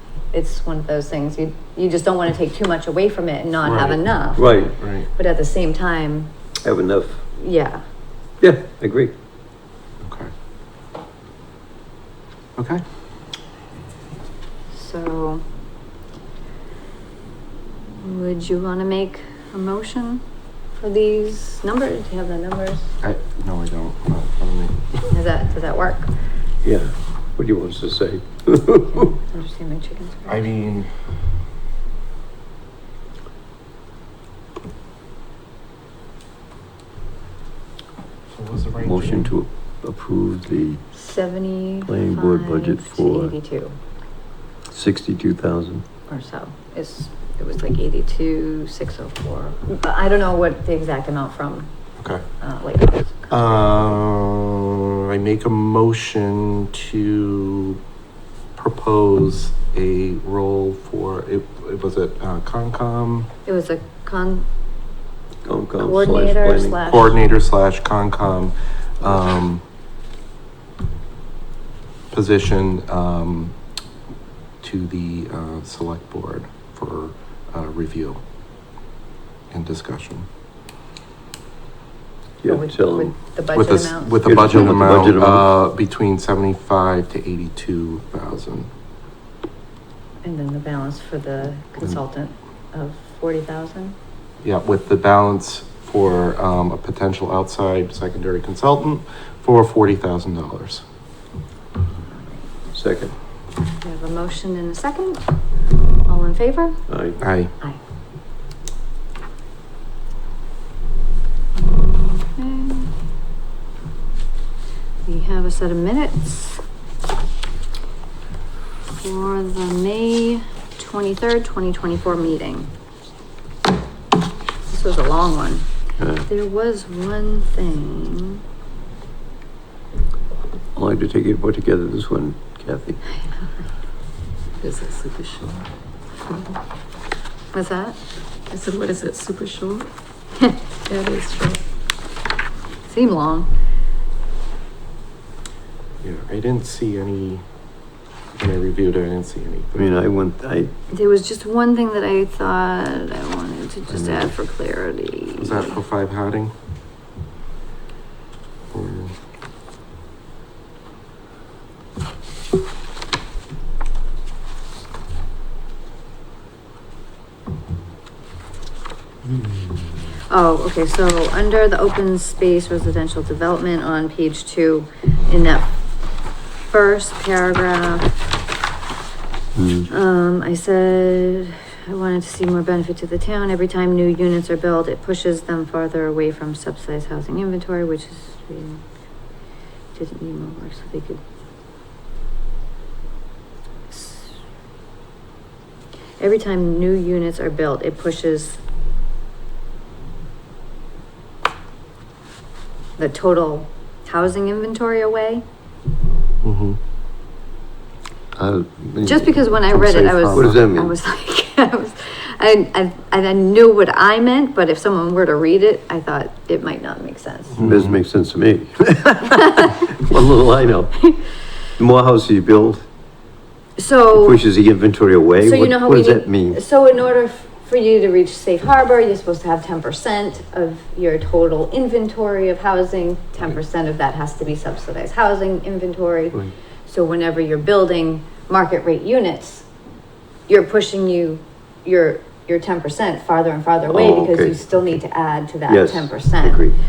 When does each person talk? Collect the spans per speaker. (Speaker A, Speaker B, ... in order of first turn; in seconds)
Speaker A: 0.3-6.3, 7.3-7.8, 14.7-15.4, 18.0-20.2, 20.7-22.9, 25.1-26.1, 28.9-30.5, 40.9-43.8, 46.1-51.7, 52.4-54.0, 63.5-64.5, 65.8-67.2, 82.5-84.6, 90.2-94.0, 102.1-102.5, 103.8-105.2, 106.1-106.8, 111.5-112.9, 115.0-116.6, 119.0-122.7, 124.7-125.6, 126.2-128.4, 137.5-138.0, 142.8-143.5, 150.9-155.8, 170.3-175.7, 176.7-178.1, 179.9-188.8, 189.9-191.2, 193.9-194.3, 196.2-198.6, 203.0-205.4, 209.0-217.6, 219.4-220.0, 223.8-224.4, 225.4-239.7, 240.5-246.7
Speaker B: 3.6-4.0, 4.8-5.1, 10.0-10.3, 12.6-12.8, 23.0-25.1, 30.3-30.9, 38.3-39.3, 52.0-52.2, 53.3-57.8, 58.5-63.3, 66.8-69.6, 72.1-73.5, 74.6-78.2, 79.5-80.3, 83.5-88.7, 94.4-100.8, 107.2-107.5, 146.0-147.4, 148.3-149.8, 155.4-156.5, 158.7-159.1, 206.4-206.8, 217.6-218.0
Speaker C: 4.3-4.8, 6.6-7.2, 8.4-9.1, 26.6-29.1, 38.8-40.8, 41.9-43.3, 44.7-45.8, 65.4-66.9, 82.4-83.1, 84.2-85.5, 102.7-103.1, 106.9-107.2, 126.0-126.2, 130.7-133.0, 149.7-150.7, 154.0-154.2, 179.5-179.9, 208.3-210.9, 217.6-221.1, 221.8-222.8, 224.1-226.6, 243.9-244.6, 245.7-246.7
Speaker D: 134.6-135.7, 136.3-136.6, 138.5-139.9, 140.8-141.6